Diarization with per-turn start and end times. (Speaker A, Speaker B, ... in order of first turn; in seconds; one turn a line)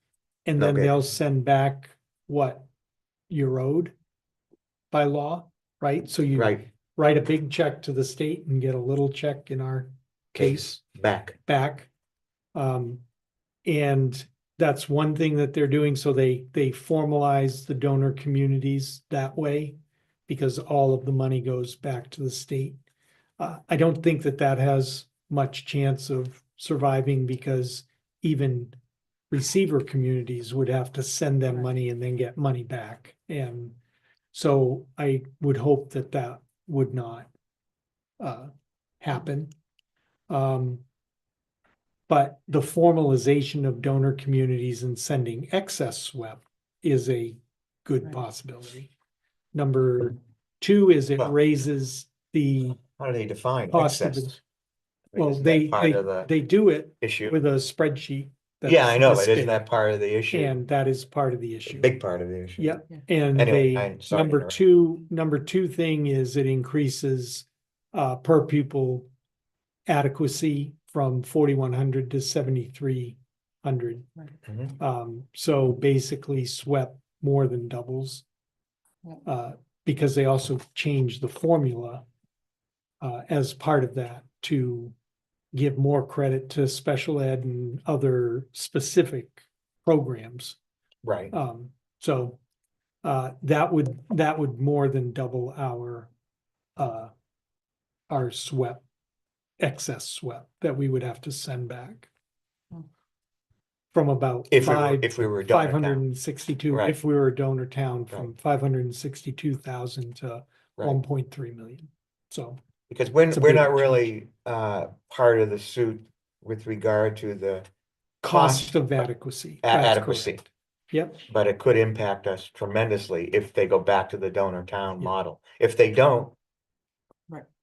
Speaker A: 0.5-2.6
Speaker B: 0.6-0.9
Speaker A: 3.3-3.9
Speaker A: 4.9-10.7
Speaker B: 6.3-6.6
Speaker B: 10.3-11.4
Speaker A: 11.4-11.9
Speaker A: 12.5-13.0
Speaker A: 13.7-19.8
Speaker A: 20.3-22.8
Speaker A: 23.4-28.8
Speaker A: 29.3-33.8
Speaker A: 34.3-37.3
Speaker A: 38.2-39.5
Speaker A: 40.3-40.8
Speaker A: 42.1-48.9
Speaker A: 49.5-52.8
Speaker B: 53.0-54.4
Speaker A: 53.7-54.4
Speaker B: 55.1-56.3
Speaker A: 55.1-59.6
Speaker B: 57.0-57.4
Speaker B: 58.6-60.5
Speaker A: 60.3-61.9
Speaker B: 61.7-62.8
Speaker A: 62.6-69.1
Speaker B: 63.3-64.6
Speaker A: 69.9-74.1
Speaker A: 74.8-78.2
Speaker A: 79.2-82.0
Speaker A: 83.0-84.9
Speaker A: 85.5-90.6
Speaker B: 91.0-91.3
Speaker A: 91.3-92.4
Speaker A: 93.0-96.1
Speaker A: 96.8-97.1
Speaker A: 98.1-98.8
Speaker A: 99.6-102.1
Speaker A: 103.9-112.6
Speaker B: 104.5-106.0
Speaker B: 106.7-107.0
Speaker B: 112.9-117.7
Speaker A: 113.3-114.1
Speaker A: 118.2-121.2
Speaker B: 118.3-118.7
Speaker B: 119.6-120.4
Speaker B: 121.3-126.3